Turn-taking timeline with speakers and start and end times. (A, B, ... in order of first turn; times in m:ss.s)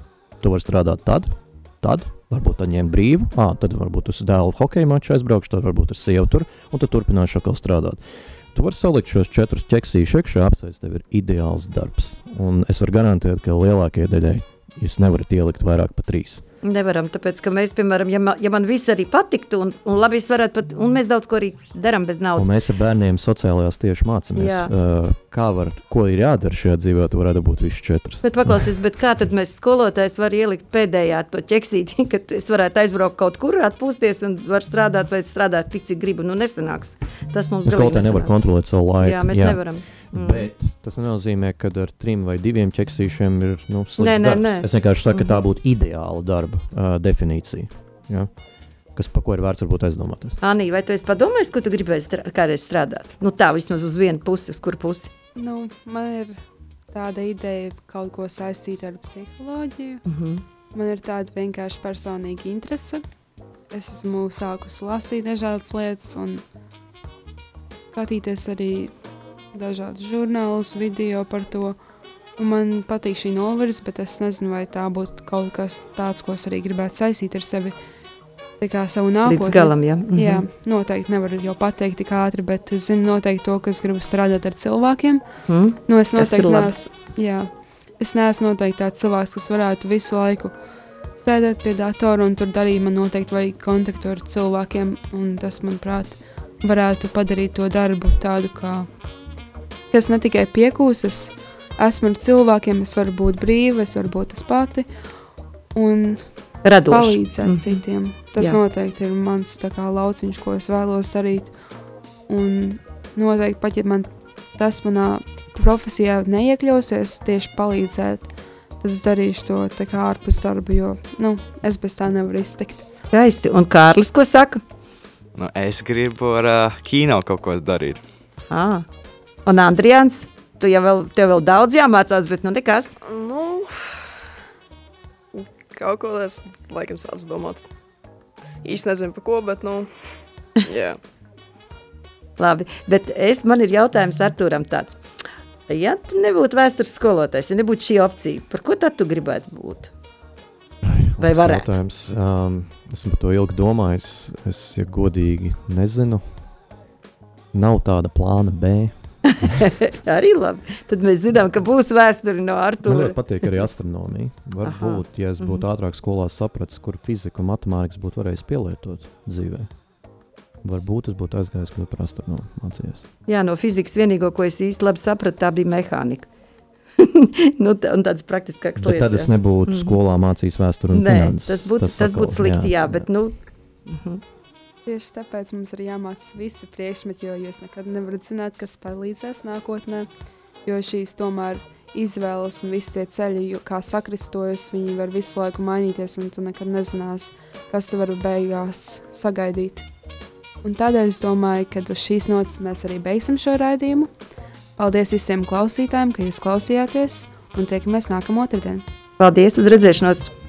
0:00.4-0:08.0 A
0:08.5-0:16.4 A
0:16.6-0:22.5 B
0:22.4-0:28.3 A
0:24.4-0:24.7 B
0:28.2-0:38.3 B
0:37.6-0:39.6 A
0:39.0-0:40.5 B
0:40.1-0:48.3 A
0:44.0-0:45.4 B
0:49.0-0:50.4 A
0:50.4-0:55.1 B
0:55.4-0:56.4 C
0:56.9-1:00.0 C
1:00.1-1:00.4 B
1:00.7-1:03.0 C
1:03.7-1:06.4 C
1:07.8-1:08.9 C
1:09.5-1:11.8 C
1:12.4-1:17.8 C
1:18.6-1:25.2 C
1:19.3-1:20.5 B
1:25.5-1:26.7 B
1:25.9-1:30.5 C
1:31.2-1:38.9 C
1:39.9-1:44.9 C
1:45.8-1:51.6 C
1:46.6-1:47.8 B
1:52.3-2:02.9 C
2:03.1-2:04.6 B
2:05.4-2:08.0 D
2:08.5-2:08.8 B
2:09.4-2:13.0 B
2:13.0-2:14.2 E
2:15.3-2:17.7 E
2:18.6-2:21.0 E
2:22.4-2:25.0 B
2:25.7-2:29.9 B
2:30.8-2:36.3 A
2:31.2-2:31.7 B
2:37.5-2:38.9 A
2:39.3-2:43.6 B
2:42.8-2:49.8 A
2:44.6-2:45.6 B
2:50.6-2:53.0 A
2:53.3-2:56.3 B
2:57.0-3:00.0 B
2:58.8-3:03.1 A
3:00.9-3:03.4 B
3:03.9-3:04.2 B
3:04.9-3:10.1 C
3:10.6-3:19.9 C
3:20.6-3:24.1 C
3:24.8-3:28.8 C
3:29.2-3:30.3 B